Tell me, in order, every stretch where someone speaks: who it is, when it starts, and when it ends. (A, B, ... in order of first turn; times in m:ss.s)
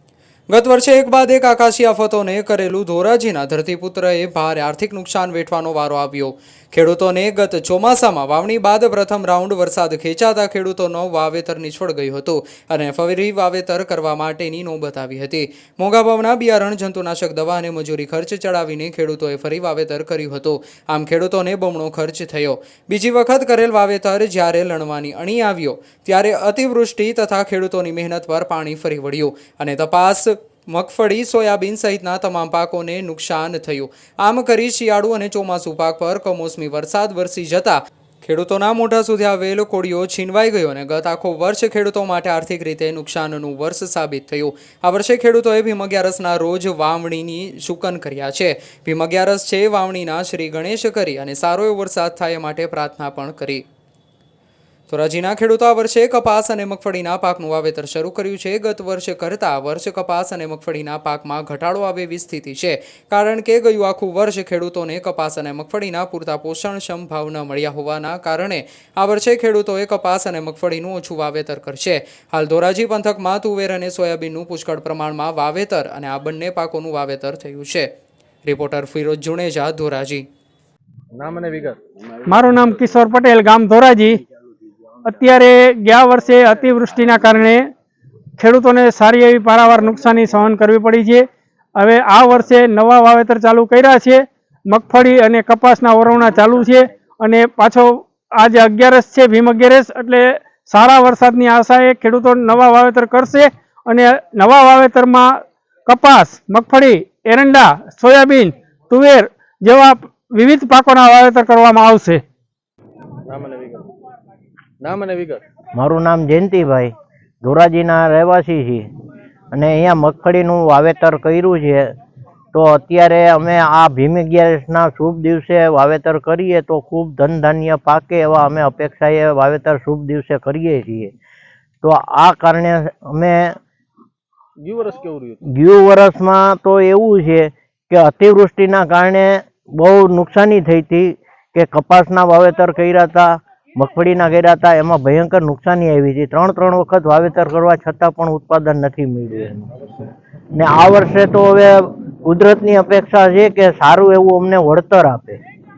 0:00.5-0:53.6 A
0:54.9-1:17.9 A
1:18.4-1:20.3 A
1:21.2-1:21.8 B
1:22.3-1:24.2 C
1:25.0-1:27.7 C
1:28.4-1:31.2 C
1:31.8-1:45.3 C
1:45.9-1:52.2 C
1:53.3-1:53.9 B
1:54.8-1:55.4 B
1:55.8-1:58.9 D
1:59.5-2:01.9 D
2:02.5-2:11.1 D
2:11.8-2:13.6 D
2:14.6-2:15.4 B
2:15.5-2:29.7 D
2:30.6-2:35.4 D